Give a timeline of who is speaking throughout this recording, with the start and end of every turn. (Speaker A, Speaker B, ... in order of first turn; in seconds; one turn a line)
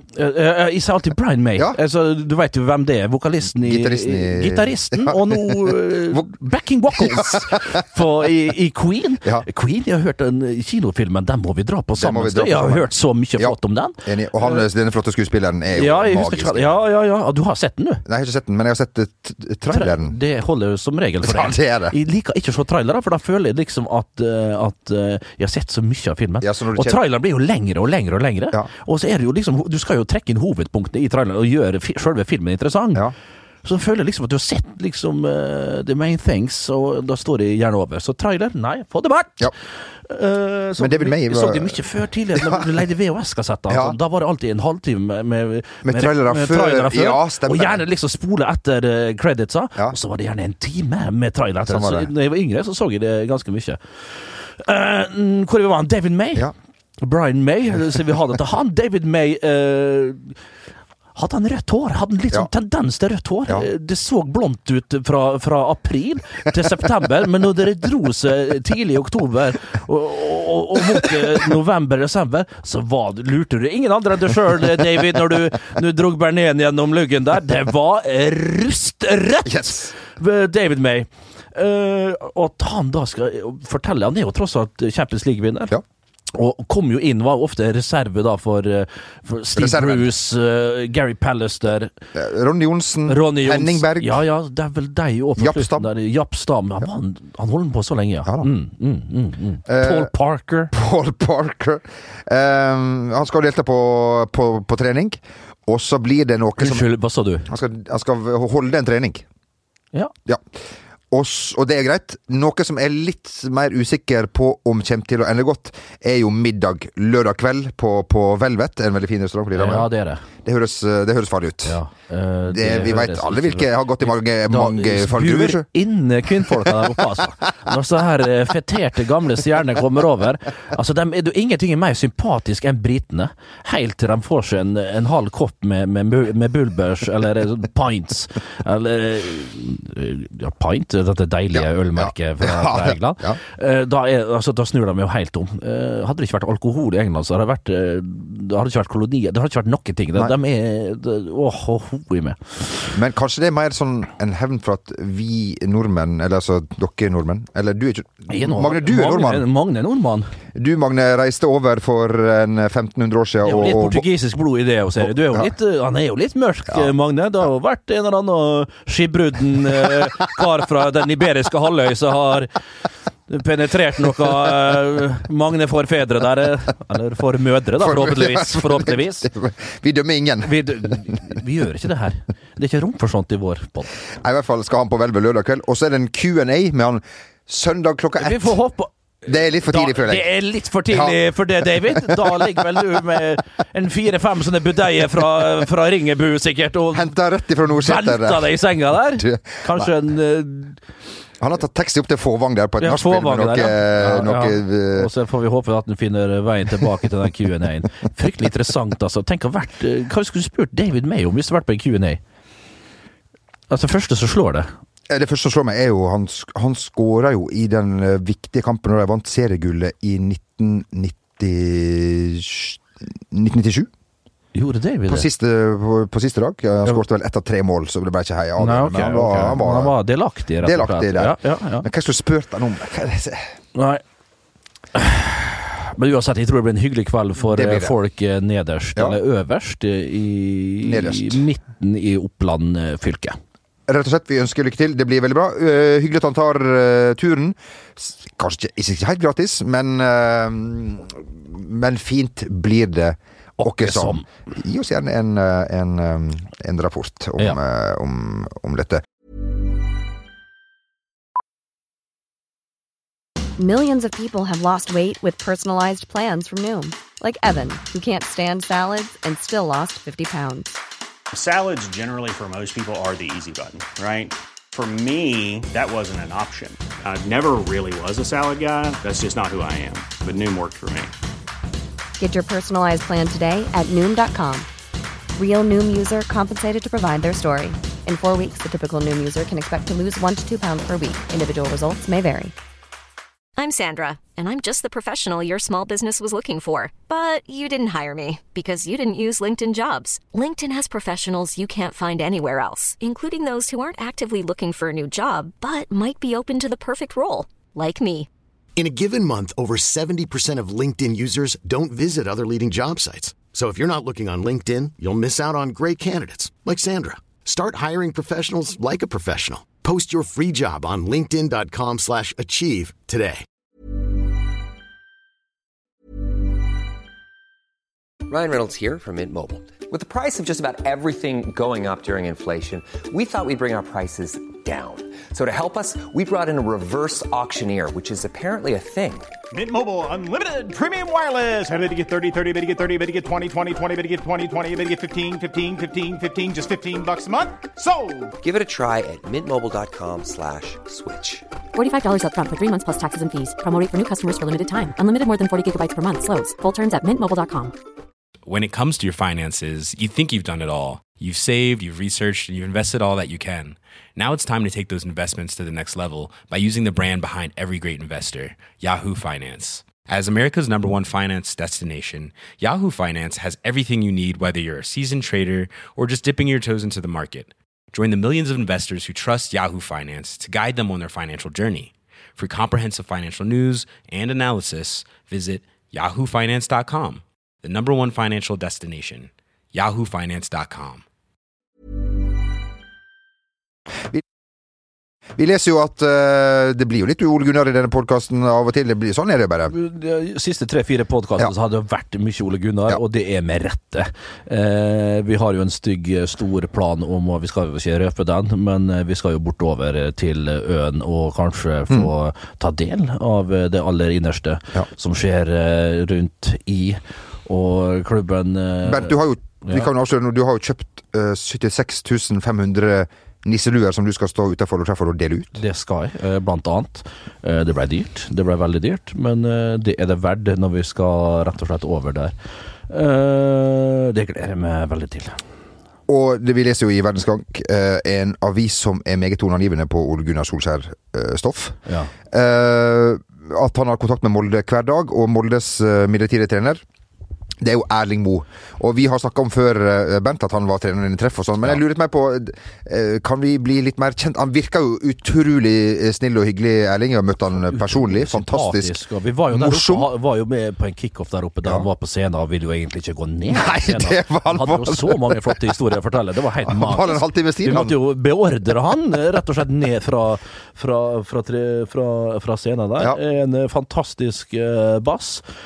Speaker A: 0.1-14.6
Speaker B: 3.6-6.3
Speaker B: 7.0-7.7
Speaker B: 12.0-16.8
Speaker A: 15.7-18.1
Speaker B: 18.1-20.2
Speaker A: 19.7-33.1
Speaker B: 21.2-22.0
Speaker B: 26.4-27.0
Speaker A: 33.6-39.5
Speaker A: 40.1-56.5
Speaker B: 40.8-41.8
Speaker B: 42.4-42.6
Speaker B: 43.7-44.0
Speaker B: 45.8-47.8
Speaker B: 51.7-52.1
Speaker A: 57.0-60.4
Speaker A: 61.1-85.7
Speaker B: 79.5-79.9
Speaker A: 86.3-91.9
Speaker B: 89.6-90.1
Speaker B: 92.1-94.2
Speaker A: 93.1-100.7
Speaker B: 95.4-95.9
Speaker B: 99.7-100.1
Speaker B: 100.7-106.9
Speaker A: 106.6-107.5
Speaker B: 107.5-109.2
Speaker B: 110.3-110.6
Speaker B: 111.1-119.9
Speaker A: 119.5-120.2
Speaker B: 120.4-121.8
Speaker A: 121.7-152.9
Speaker B: 122.5-125.7
Speaker B: 141.5-143.4
Speaker B: 152.9-159.5
Speaker A: 158.3-160.3
Speaker B: 160.6-164.1
Speaker A: 163.4-172.5
Speaker B: 165.0-165.5
Speaker A: 173.3-179.3
Speaker B: 177.8-181.0
Speaker A: 180.4-184.0
Speaker B: 184.1-188.6
Speaker A: 188.2-188.9
Speaker B: 189.3-190.3
Speaker A: 189.7-197.2
Speaker B: 190.9-191.2
Speaker B: 191.7-192.5
Speaker B: 196.9-199.9
Speaker A: 197.7-200.8
Speaker B: 201.4-205.1
Speaker A: 202.8-212.2
Speaker A: 213.7-214.7
Speaker B: 215.1-223.9
Speaker A: 224.5-225.3
Speaker B: 225.1-230.0
Speaker A: 228.6-231.9
Speaker B: 230.6-233.5
Speaker A: 233.8-234.0
Speaker A: 234.9-243.4
Speaker B: 237.5-237.9
Speaker B: 240.8-241.4
Speaker B: 243.9-259.0
Speaker A: 253.6-254.3
Speaker C: 263.6-270.7
Speaker D: 271.3-281.1
Speaker C: 282.2-284.7
Speaker C: 285.4-292.5
Speaker E: 293.6-308.3
Speaker F: 308.8-323.4
Speaker G: 328.3-339.3
Speaker H: 339.5-348.3
Speaker G: 348.4-351.5
Speaker I: 351.8-357.7
Speaker J: 358.5-391.0
Speaker B: 395.4-399.7
Speaker A: 399.7-419.9
Speaker B: 418.8-425.6
Speaker A: 425.6-432.4
Speaker A: 432.9-435.4
Speaker B: 436.1-441.8
Speaker B: 442.3-446.8
Speaker B: 447.6-459.0
Speaker A: 457.6-475.4
Speaker B: 459.5-460.1
Speaker B: 463.5-465.7
Speaker B: 466.7-468.0